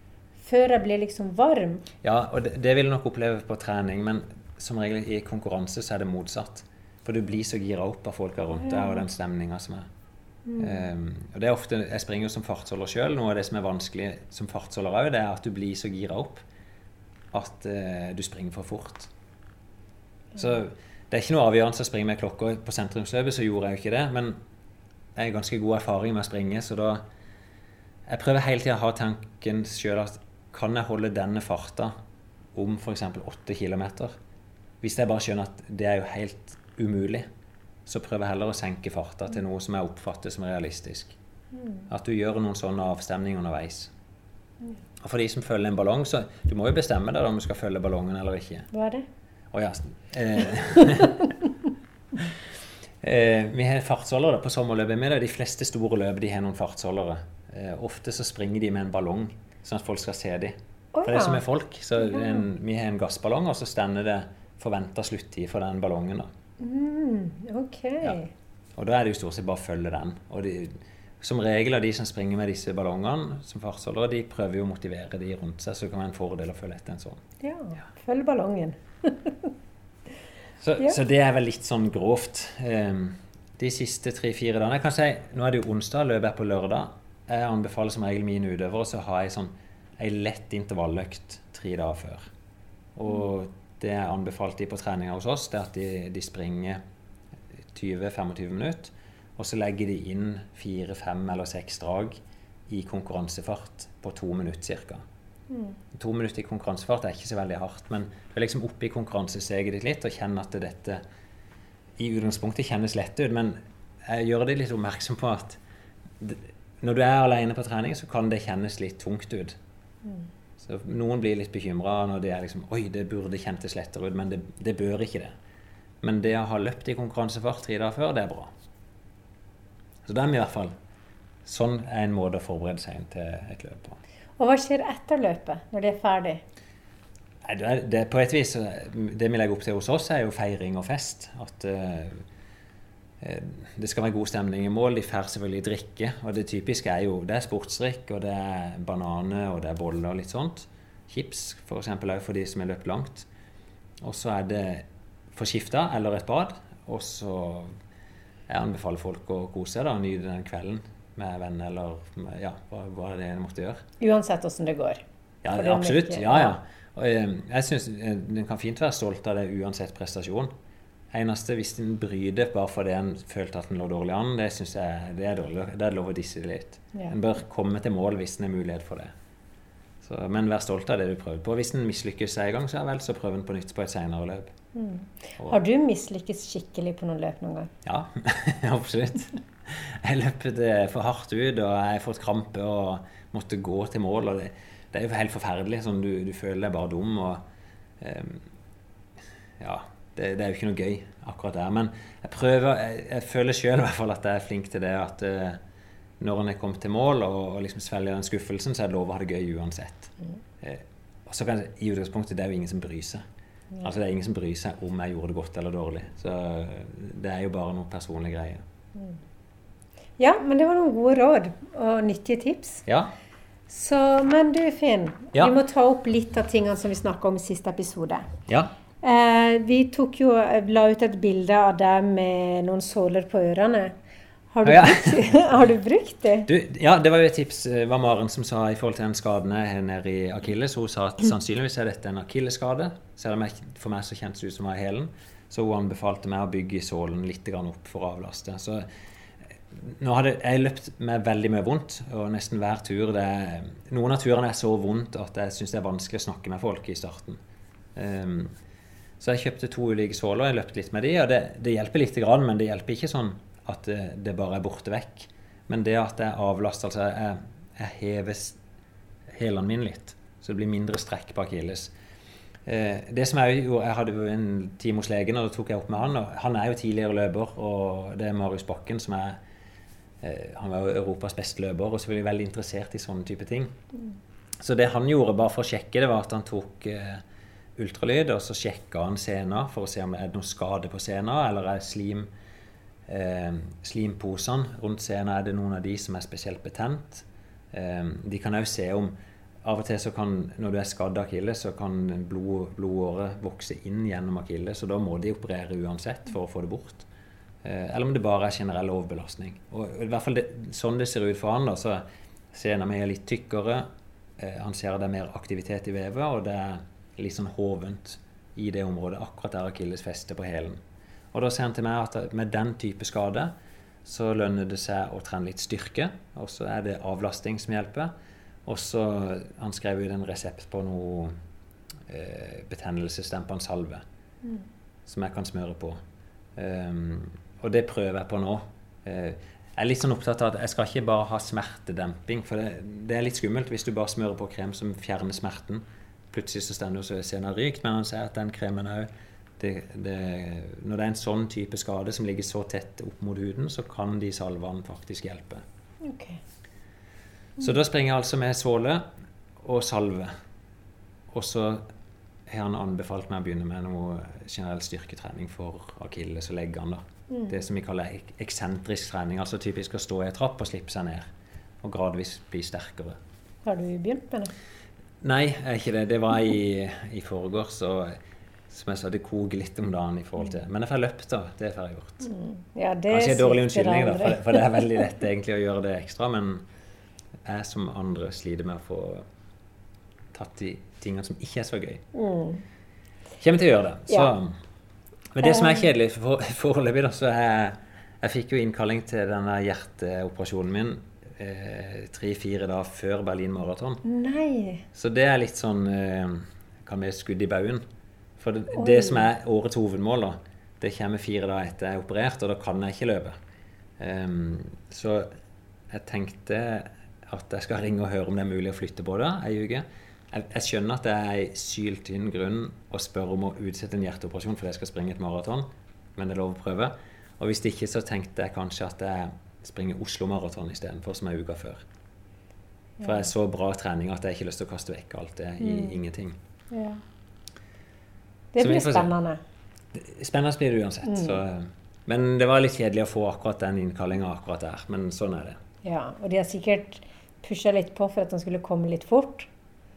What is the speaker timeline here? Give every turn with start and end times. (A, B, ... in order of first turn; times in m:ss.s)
0:00.4-0:01.8 A
0:02.0-0:09.9 B
0:10.5-0:10.8 A
0:10.6-0:16.4 B
0:17.3-0:19.1 B
0:20.3-0:24.4 B
0:25.2-0:27.0 B
0:28.1-0:31.9 B
0:32.5-0:34.2 B
0:34.8-0:37.2 B
0:37.8-0:41.2 B
0:41.9-0:43.9 B
0:45.0-0:48.7 B
0:48.7-0:49.0 A
0:49.5-0:51.3 B
0:53.0-1:06.3 B
1:00.9-1:01.4 A
1:06.6-1:08.3 A
1:08.8-1:17.2 B
1:17.4-1:19.5 A
1:20.6-1:32.3 B
1:33.0-1:36.8 B
1:37.7-1:45.0 B
1:45.5-1:45.8 A
1:45.9-1:51.0 B
1:52.0-1:55.6 B
1:56.2-1:59.6 B
2:00.6-2:05.4 B
2:06.0-2:08.5 B
2:10.0-2:10.7 B
2:11.4-2:14.0 B
2:14.4-2:16.4 A
2:17.4-2:22.2 B
2:23.2-2:33.3 B
2:34.0-2:37.8 B
2:38.5-2:43.8 B
2:44.0-2:45.0 A
2:45.4-2:50.5 B
2:45.5-2:46.5 A
2:51.1-2:59.1 B
3:00.0-3:04.5 B
3:04.7-3:07.7 A
3:07.8-3:17.4 B
3:18.0-3:18.4 B
3:19.6-3:25.6 B
3:26.2-3:33.2 B
3:33.8-3:38.6 B
3:40.2-3:42.8 A
3:42.8-3:43.1 B
3:43.7-3:48.2 A
3:49.0-3:53.9 A
3:54.5-3:56.5 A
3:54.6-3:55.4 B
3:56.4-4:08.8 B
4:09.7-4:17.4 B
4:18.0-4:18.5 B
4:19.2-4:28.6 B
4:29.3-4:31.9 B
4:32.6-4:39.4 B
4:40.2-4:43.8 B
4:44.6-4:47.2 B
4:47.8-4:52.3 B
4:53.1-5:07.0 B
5:07.6-5:13.8 B
5:14.4-5:20.8 B
5:21.3-5:23.5 B
5:24.0-5:28.1 B
5:28.6-5:31.3 B
5:32.1-5:34.0 B
5:35.0-5:36.0 B
5:36.6-5:49.1 B
5:49.6-5:55.6 B
5:56.0-5:56.4 A
5:57.6-5:59.1 B
5:59.6-6:00.3 B
6:01.3-6:01.8 B
6:02.5-6:11.3 B
6:11.8-6:13.2 B
6:13.6-6:14.5 A
6:15.2-6:18.2 B
6:18.7-6:22.3 B
6:22.2-6:24.8 A
6:23.1-6:26.6 B
6:27.4-6:29.2 B
6:30.3-6:32.0 B
6:32.1-6:32.6 A
6:33.4-6:34.6 B
6:35.3-6:44.0 B
6:44.0-6:44.8 A
6:44.9-6:47.8 B
6:48.4-6:53.4 B
6:48.8-6:49.2 A
6:54.0-6:55.3 B
6:55.9-7:11.8 B
7:13.0-7:13.2 A
7:13.0-7:16.4 B
7:15.6-7:15.9 A
7:16.7-7:17.0 A
7:18.5-7:19.4 A
7:18.6-7:19.1 B
7:19.9-7:25.6 B
7:21.0-7:21.4 A
7:25.8-7:29.5 A